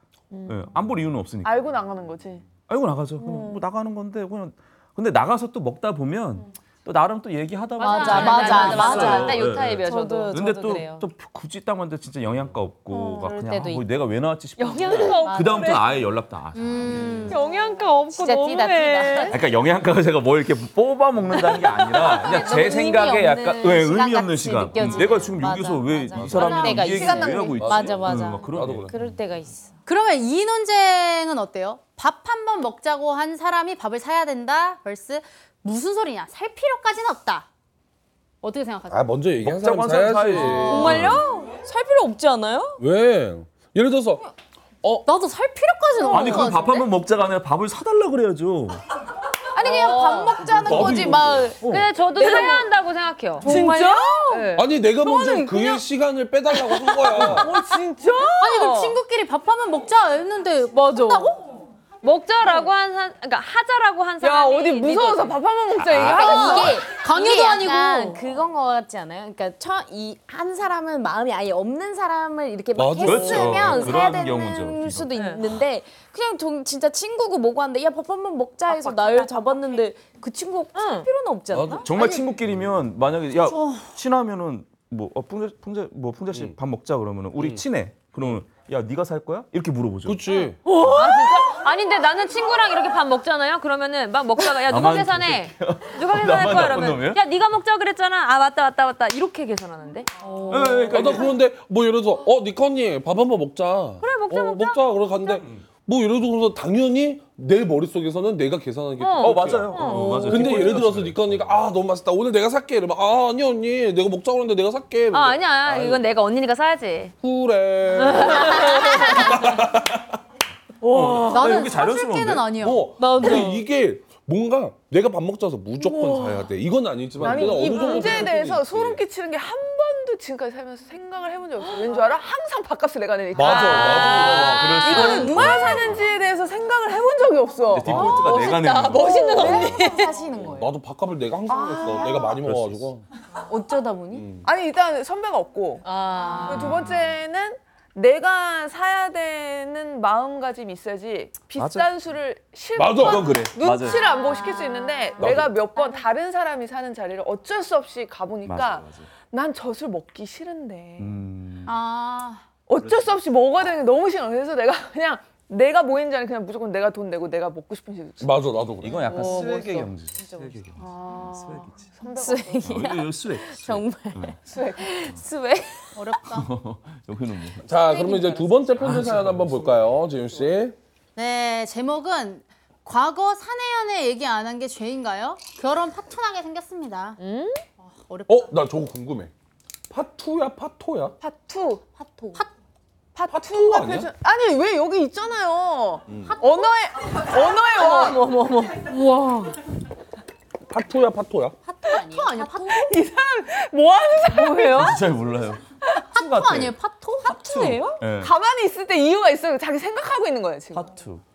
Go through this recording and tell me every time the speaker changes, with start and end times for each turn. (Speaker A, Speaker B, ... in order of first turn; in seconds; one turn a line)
Speaker A: 0.3-0.6
Speaker B: 0.5-1.6
Speaker C: 1.4-2.5
Speaker B: 2.7-17.4
Speaker C: 3.2-3.6
Speaker D: 7.8-9.2
Speaker E: 7.8-10.8
Speaker A: 7.8-11.1
Speaker C: 12.9-13.2
Speaker E: 13.2-13.8
Speaker A: 14.6-15.9
Speaker D: 15.4-15.7
Speaker D: 16.6-17.4
Speaker A: 17.3-19.4
Speaker E: 18.1-19.4
Speaker B: 19.3-28.9
Speaker A: 21.4-22.3
Speaker E: 22.0-29.8
Speaker F: 26.2-26.6
Speaker D: 26.3-27.1
Speaker C: 26.7-27.9
Speaker F: 27.5-29.1
Speaker D: 29.9-37.5
Speaker D: 38.4-39.1
Speaker F: 38.9-41.1
Speaker B: 39.4-41.3
Speaker D: 40.3-41.0
Speaker E: 40.6-42.8
Speaker F: 42.8-44.3
Speaker D: 45.0-46.9
Speaker B: 46.1-48.8
Speaker E: 46.1-46.4
Speaker D: 49.5-51.5
Speaker E: 49.6-50.5
Speaker A: 49.6-53.5
Speaker F: 50.5-51.7
Speaker B: 51.6-51.9
Speaker E: 52.2-52.6
Speaker D: 53.4-53.9
Speaker C: 53.4-54.6
Speaker E: 53.4-54.5
Speaker A: 54.3-54.6
Speaker F: 54.6-57.5
Speaker D: 55.0-55.8
Speaker C: 57.1-59.0
Speaker D: 58.4-61.4
Speaker E: 61.0-61.2
Speaker A: 62.0-65.4
Speaker C: 64.2-66.8
Speaker B: 65.8-66.8
Speaker E: 66.0-82.2
Speaker D: 66.0-68.2
Speaker F: 72.8-74.1
Speaker B: 73.0-75.1
Speaker A: 75.1-75.4
Speaker A: 78.7-79.5
Speaker A: 80.7-81.1
Speaker F: 81.5-82.9
Speaker B: 81.8-90.2
Speaker D: 83.5-83.9
Speaker F: 86.3-86.6
Speaker F: 87.4-87.7
Speaker F: 88.2-88.5
Speaker F: 90.0-90.6
Speaker A: 90.7-100.8
Speaker B: 94.6-97.2
Speaker B: 100.5-101.3
Speaker F: 100.9-116.0
Speaker A: 104.0-105.3
Speaker A: 109.0-110.8
Speaker B: 109.2-111.6
Speaker A: 115.1-117.1
Speaker F: 117.2-120.1
Speaker A: 118.0-119.4
Speaker B: 120.8-122.7
Speaker E: 120.9-121.6
Speaker D: 121.2-123.4
Speaker F: 122.5-129.0
Speaker C: 125.8-126.4
Speaker C: 127.2-139.8
Speaker F: 133.3-134.9
Speaker B: 133.4-136.0
Speaker A: 134.9-135.2
Speaker E: 135.0-135.4
Speaker B: 137.7-139.4
Speaker F: 137.8-138.4
Speaker E: 138.2-138.5
Speaker A: 138.4-140.1
Speaker E: 139.1-140.7
Speaker F: 139.4-143.1
Speaker C: 141.5-142.3
Speaker B: 142.4-142.9
Speaker E: 143.4-144.3
Speaker F: 144.1-144.5
Speaker C: 144.4-145.9
Speaker A: 145.8-146.7
Speaker E: 146.1-146.7
Speaker C: 146.4-161.2
Speaker B: 146.7-146.9
Speaker B: 151.6-151.9
Speaker F: 152.8-153.5
Speaker B: 153.0-154.0
Speaker F: 155.2-155.6
Speaker B: 158.5-159.1
Speaker B: 161.0-161.8
Speaker D: 161.7-162.4
Speaker C: 162.7-168.4
Speaker B: 162.8-163.1
Speaker F: 168.2-169.1
Speaker B: 168.8-171.9
Speaker E: 169.1-169.4
Speaker A: 169.2-169.9
Speaker C: 170.8-172.9
Speaker E: 172.1-176.2
Speaker B: 172.6-174.4
Speaker C: 174.5-174.9
Speaker D: 175.9-176.5
Speaker B: 176.2-177.7
Speaker F: 177.6-180.8
Speaker E: 178.1-178.4
Speaker B: 178.7-179.9
Speaker D: 181.2-187.2
Speaker A: 187.2-187.6
Speaker D: 187.8-188.5
Speaker F: 188.3-189.3
Speaker F: 189.9-191.2
Speaker C: 191.2-191.8
Speaker E: 192.0-192.4
Speaker C: 193.2-198.2
Speaker F: 193.3-194.1
Speaker F: 196.1-196.4
Speaker E: 197.8-198.8
Speaker A: 198.0-198.7
Speaker D: 198.9-199.6
Speaker F: 200.7-201.6
Speaker E: 201.6-202.7
Speaker D: 201.9-203.0
Speaker C: 202.7-205.0
Speaker B: 204.7-205.6
Speaker D: 206.1-207.7
Speaker B: 206.1-208.3
Speaker E: 207.3-208.0
Speaker C: 208.2-210.9
Speaker B: 210.7-211.2